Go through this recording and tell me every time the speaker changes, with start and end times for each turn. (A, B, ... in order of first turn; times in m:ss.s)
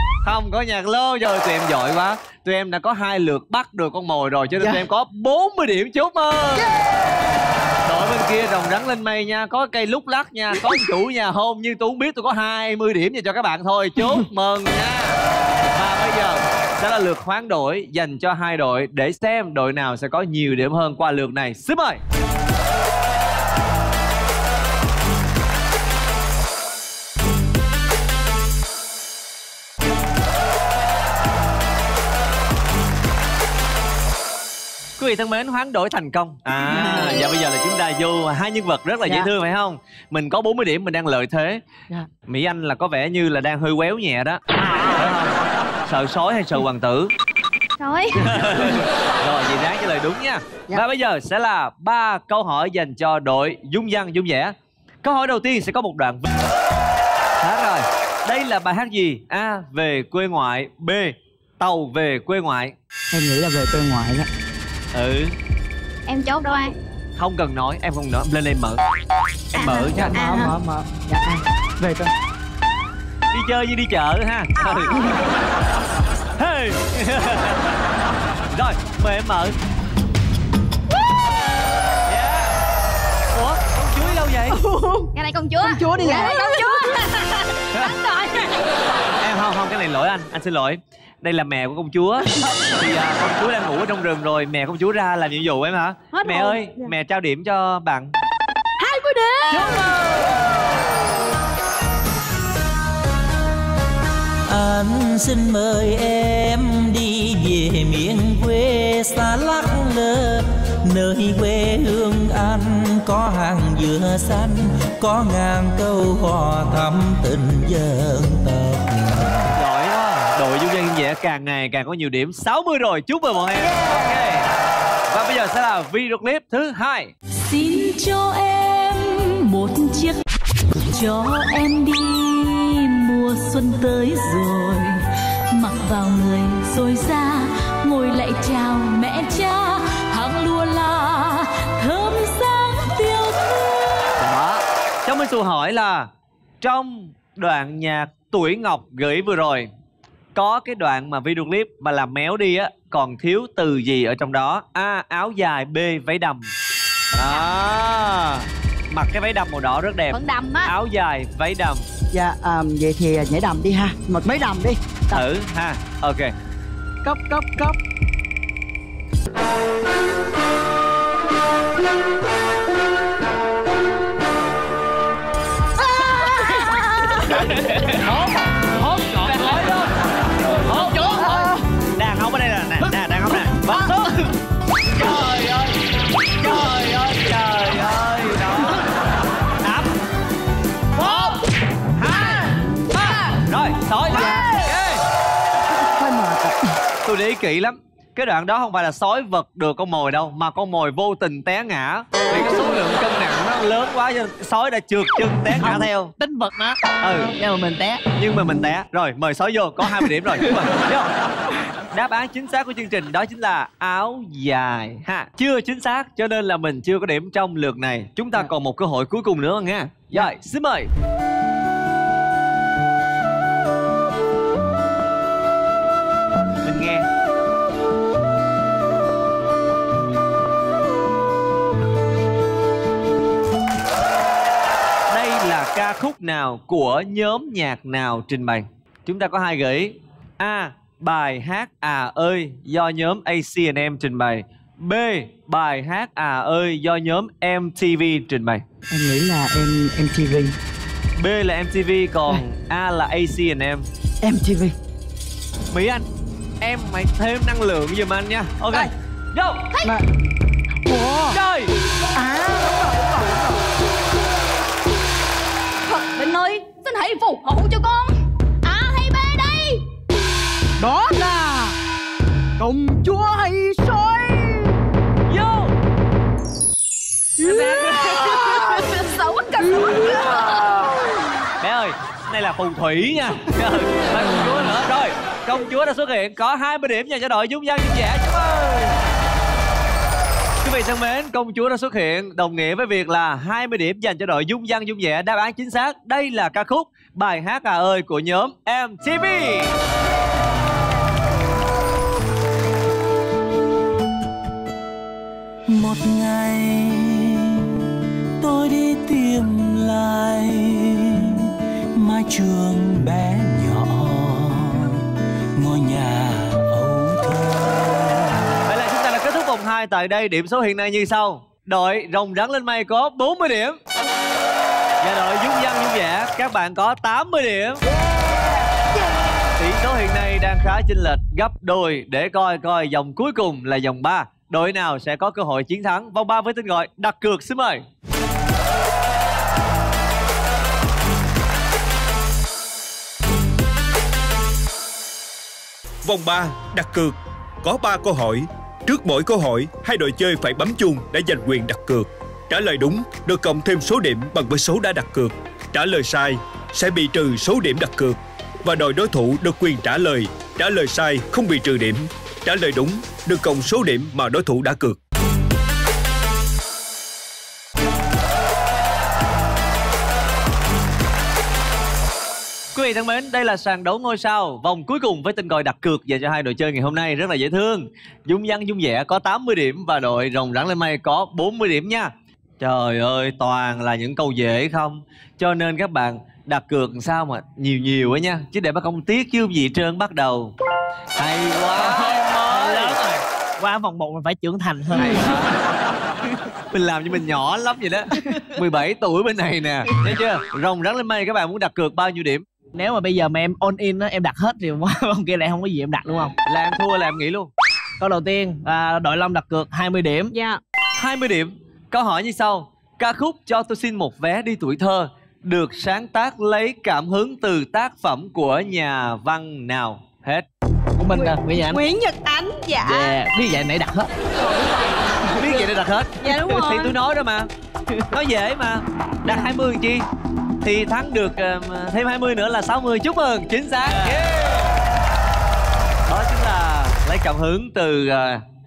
0:00.2-0:06.7 A
0:07.8-0:15.2 A
0:15.7-0:22.0 A
0:35.0-0:41.6 A
0:36.6-0:37.2 B
0:42.3-0:47.1 A
0:47.8-0:48.4 C
0:48.2-0:56.3 A
0:57.4-1:02.7 A
1:03.1-1:04.3 B
1:04.9-1:05.3 A
1:06.1-1:06.7 C
1:07.2-1:08.8 A
1:09.5-1:10.2 A
1:09.5-1:10.5 C
1:09.8-1:12.1 B
1:13.3-1:14.9 A
1:16.4-1:17.7 A
1:18.5-1:19.5 A
1:22.0-1:22.5 A
1:23.3-1:24.6 A
1:24.5-1:25.1 B
1:25.1-1:27.9 C
1:25.6-1:26.7 B
1:29.2-1:38.1 A
1:36.1-1:36.9 D
1:38.8-1:40.0 D
1:39.5-1:40.9 A
1:44.5-1:59.5 E
1:59.6-2:04.5 A
2:03.7-2:04.2 B
2:05.1-2:07.1 A
2:07.3-2:10.2 F
2:10.9-2:15.0 F
2:15.5-2:24.3 F
2:24.2-2:26.1 A
2:26.6-2:29.7 A
2:30.4-2:36.5 A
2:37.1-2:41.8 A
2:40.1-2:40.7 C
2:42.1-2:45.2 B
2:45.1-2:46.3 A
2:47.0-2:47.8 B
2:57.2-2:58.1 G
2:58.0-3:04.2 A
2:58.8-2:59.7 G
3:00.4-3:01.4 G
3:01.2-3:01.6 B
3:04.9-3:05.8 A
3:06.4-3:08.8 A
3:09.6-3:09.9 A
3:11.0-3:11.4 A
3:12.0-3:15.0 A
3:14.1-3:14.5 B
3:15.9-3:16.6 B
3:17.0-3:26.1 A
3:25.6-3:28.0 G
3:27.0-3:27.3 A
3:28.1-3:31.1 A
3:31.9-3:40.9 A
3:46.6-3:47.1 A
3:55.1-4:08.6 A
4:08.9-4:10.6 B
4:11.2-4:13.9 A
4:14.2-4:14.7 B
4:15.7-4:16.0 A
4:16.6-4:19.7 A
4:20.9-4:21.4 B
4:21.3-4:21.7 A
4:22.1-4:23.6 B
4:25.9-4:29.8 C
4:30.8-4:31.8 B
4:32.6-4:34.8 B
4:35.3-4:35.7 A
4:37.4-4:40.9 C
4:37.4-4:38.6 A
4:38.0-4:38.9 B
4:39.8-4:40.4 B
4:41.6-4:49.0 A
4:50.6-4:59.8 A
5:05.7-5:07.6 E
5:08.4-5:15.0 E
5:15.6-5:18.5 E
5:18.6-5:23.8 A
5:25.0-5:27.8 A
5:27.9-5:29.0 B
5:29.6-5:37.8 A
5:46.0-6:05.0 H
6:12.7-6:30.5 A
6:31.2-6:33.0 A
6:31.7-6:35.3 G
6:34.9-6:35.5 A
6:36.7-6:42.4 A
6:42.7-6:46.3 G
6:46.4-6:47.5 A
6:48.0-6:50.3 G
6:50.3-6:50.6 D
6:51.0-7:00.4 A
7:01.0-7:01.8 G
7:01.1-7:03.2 D
7:02.8-7:04.1 G
7:04.4-7:05.6 D
7:05.4-7:07.5 A
7:06.2-7:07.0 D
7:07.9-7:08.1 G
7:08.1-7:10.0 A
7:10.6-7:14.8 A
7:13.9-7:14.2 G
7:16.1-7:18.4 A